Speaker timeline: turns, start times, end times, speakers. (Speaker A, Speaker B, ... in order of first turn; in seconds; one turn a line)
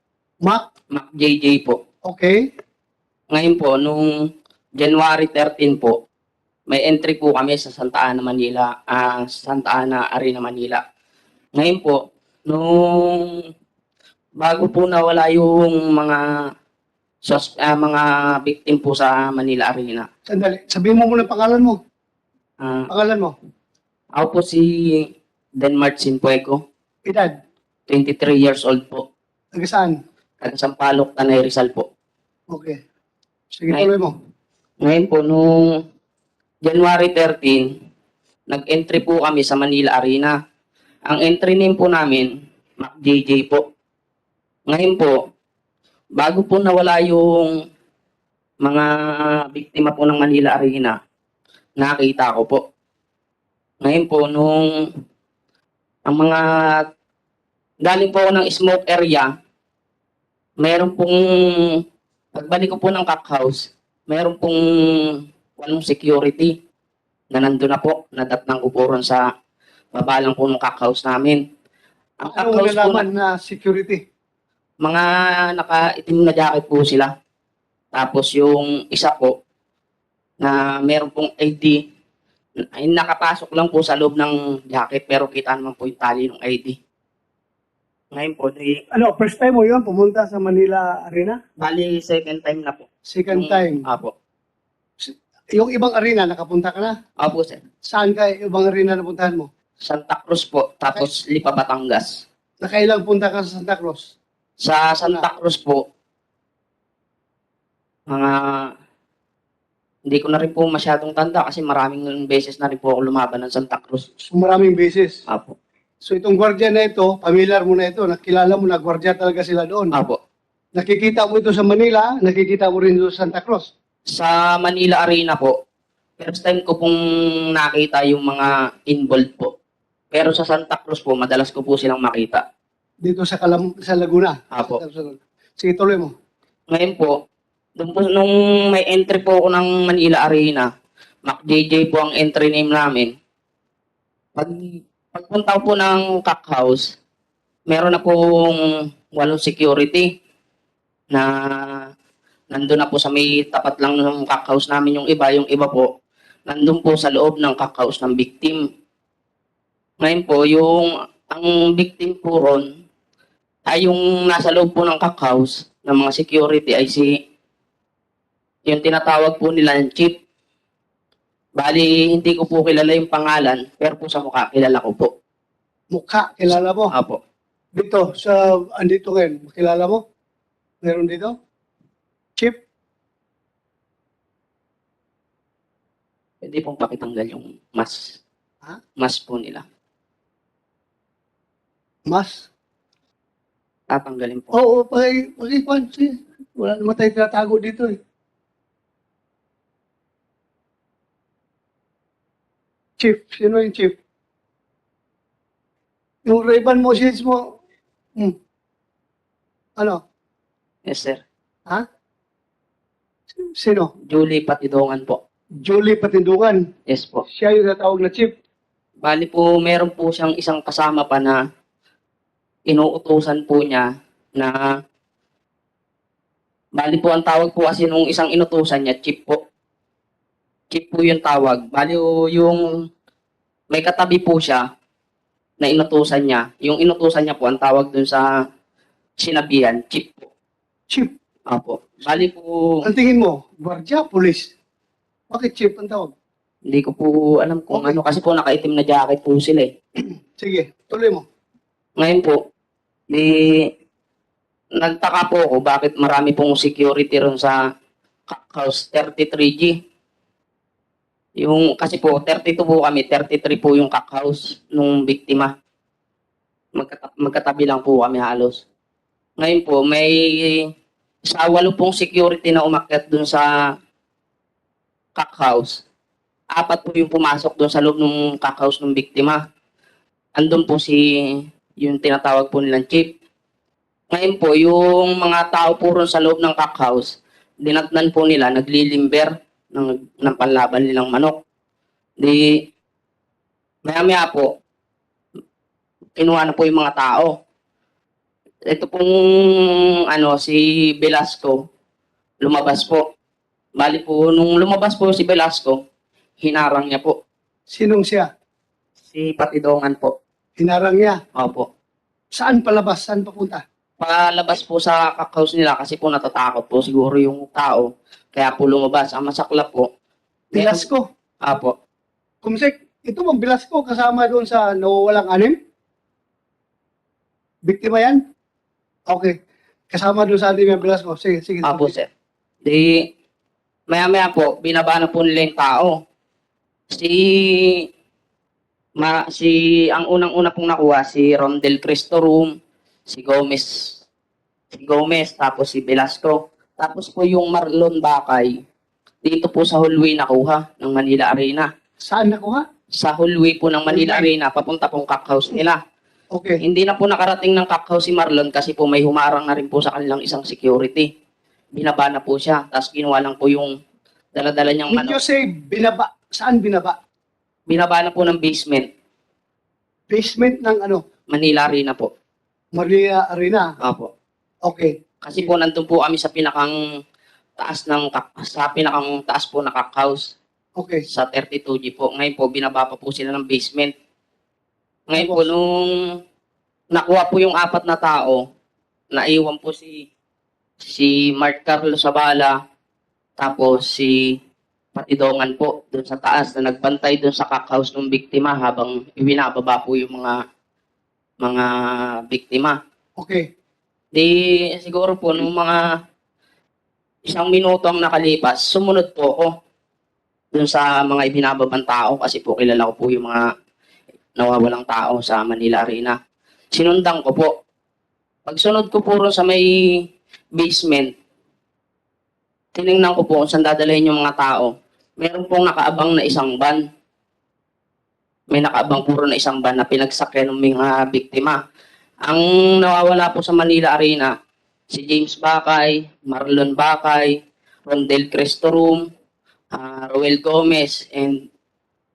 Speaker A: 0.9-1.8
Speaker B: 2.0-2.4
Speaker A: 3.3-4.1
Speaker A: 4.8-5.9
Speaker A: 6.7-10.8
Speaker A: 11.6-13.3
Speaker A: 14.4-16.2
Speaker A: 17.2-20.1
Speaker B: 20.3-21.8
Speaker A: 22.6-22.9
Speaker B: 22.9-23.3
Speaker A: 24.2-25.0
Speaker A: 25.6-26.6
Speaker B: 27.1-27.3
Speaker A: 27.9-29.0
Speaker B: 29.6-29.9
Speaker A: 30.4-31.9
Speaker B: 32.5-32.8
Speaker B: 33.5-34.1
Speaker A: 34.8-35.5
Speaker A: 36.6-37.6
Speaker A: 38.5-40.3
Speaker A: 41.1-42.3
Speaker A: 42.8-43.6
Speaker A: 44.7-45.1
Speaker A: 46.2-47.5
Speaker A: 49.5-50.9
Speaker A: 51.8-52.6
Speaker A: 53.8-54.6
Speaker A: 56.1-56.4
Speaker A: 57.8-59.3
Speaker A: 60.6-61.8
Speaker A: 62.4-64.6
Speaker A: 65.6-66.5
Speaker A: 67.3-69.2
Speaker A: 69.9-71.4
Speaker A: 72.2-73.1
Speaker B: 72.2-74.0
Speaker A: 74.8-77.1
Speaker A: 77.9-79.3
Speaker A: 80.4-81.8
Speaker A: 82.8-86.8
Speaker A: 88.1-88.8
Speaker B: 88.9-91.4
Speaker A: 91.6-94.1
Speaker B: 93.1-93.8
Speaker B: 95.0-96.9
Speaker A: 97.2-97.6
Speaker B: 97.8-99.5
Speaker A: 99.8-102.2
Speaker B: 102.6-104.0
Speaker A: 104.6-105.8
Speaker A: 108.1-108.7
Speaker A: 110.1-114.1
Speaker B: 114.3-115.2
Speaker A: 115.3-115.5
Speaker B: 116.0-119.9
Speaker A: 119.9-120.2
Speaker B: 120.8-123.7
Speaker A: 124.1-125.5
Speaker A: 126.2-127.0
Speaker A: 127.5-129.5
Speaker A: 130.1-132.4
Speaker B: 133.0-136.1
Speaker A: 134.5-134.8
Speaker A: 136.7-137.1
Speaker A: 137.8-140.7
Speaker A: 141.2-143.1
Speaker A: 144.4-146.8
Speaker A: 147.7-148.6
Speaker A: 149.1-150.1
Speaker A: 152.5-155.9
Speaker A: 156.5-158.6
Speaker A: 160.0-162.6
Speaker A: 163.7-167.1
Speaker A: 168.7-170.1
Speaker A: 171.6-175.1
Speaker B: 175.9-176.9
Speaker A: 176.5-177.2
Speaker B: 177.8-180.0
Speaker B: 180.8-181.3
Speaker A: 186.4-188.2
Speaker A: 189.0-189.6
Speaker B: 192.1-192.5
Speaker A: 193.9-194.5
Speaker B: 194.5-197.9
Speaker B: 203.0-203.9
Speaker B: 206.2-207.5
Speaker A: 210.9-211.2
Speaker B: 213.3-213.9
Speaker A: 214.1-215.2
Speaker B: 215.6-216.6
Speaker A: 216.9-217.2
Speaker B: 217.3-218.3
Speaker A: 219.0-221.4
Speaker A: 222.7-224.6
Speaker A: 226.8-229.4
Speaker A: 230.7-232.6
Speaker A: 233.7-234.6
Speaker A: 235.6-238.2
Speaker A: 239.2-240.3
Speaker A: 241.5-242.8
Speaker B: 242.8-244.5
Speaker B: 245.3-246.1
Speaker A: 246.7-249.7
Speaker B: 247.7-248.0
Speaker B: 250.0-251.2
Speaker A: 252.0-252.4
Speaker A: 253.1-253.6
Speaker A: 254.8-257.6
Speaker A: 258.3-259.7
Speaker A: 261.4-265.5
Speaker A: 266.8-268.6
Speaker A: 269.4-270.6
Speaker A: 271.3-273.5
Speaker A: 275.2-275.8
Speaker A: 276.6-279.4
Speaker A: 280.4-281.0
Speaker A: 281.8-283.1
Speaker A: 284.1-287.1
Speaker A: 287.6-291.4
Speaker A: 293.9-294.5
Speaker A: 296.1-297.3
Speaker A: 298.7-301.6
Speaker A: 302.4-303.0
Speaker A: 303.8-305.8
Speaker A: 306.4-307.1
Speaker B: 307.7-308.3
Speaker A: 309.1-310.1
Speaker B: 310.6-311.2
Speaker A: 311.4-311.7
Speaker B: 312.4-313.6
Speaker A: 314.0-319.9
Speaker B: 320.5-321.1
Speaker A: 320.5-320.9
Speaker A: 321.4-321.7
Speaker B: 322.4-325.6
Speaker B: 327.6-328.2
Speaker B: 329.9-331.9
Speaker A: 331.6-332.1
Speaker A: 332.6-332.9
Speaker A: 333.9-335.9
Speaker A: 336.9-337.8
Speaker A: 339.0-342.5
Speaker A: 343.1-343.7
Speaker A: 344.7-348.6
Speaker A: 349.2-351.7
Speaker B: 352.0-352.6
Speaker A: 353.0-355.8
Speaker B: 353.9-354.3
Speaker B: 356.3-356.6
Speaker A: 356.6-361.1
Speaker A: 361.8-363.7
Speaker A: 364.4-365.2
Speaker B: 364.9-366.9
Speaker A: 367.7-368.9
Speaker B: 370.1-371.0
Speaker A: 371.3-372.1
Speaker B: 372.8-373.7
Speaker A: 373.8-374.1
Speaker B: 374.6-374.9
Speaker A: 375.2-376.7
Speaker A: 377.6-380.2
Speaker B: 380.8-381.0
Speaker A: 381.1-383.9
Speaker A: 385.1-385.6
Speaker B: 385.2-385.5
Speaker A: 386.9-388.4
Speaker A: 389.1-390.0
Speaker A: 390.8-392.5
Speaker A: 393.4-394.1
Speaker A: 394.9-400.4
Speaker A: 401.4-401.7
Speaker A: 402.3-402.8
Speaker B: 403.2-403.4
Speaker A: 404.1-405.8
Speaker A: 407.3-409.5
Speaker A: 410.5-413.4
Speaker A: 414.4-416.1
Speaker A: 416.7-417.5
Speaker A: 418.5-419.7
Speaker A: 420.6-421.1
Speaker A: 422.8-426.8
Speaker A: 428.5-431.6
Speaker A: 432.3-434.3
Speaker A: 434.9-437.3
Speaker A: 437.9-439.0
Speaker A: 439.8-441.5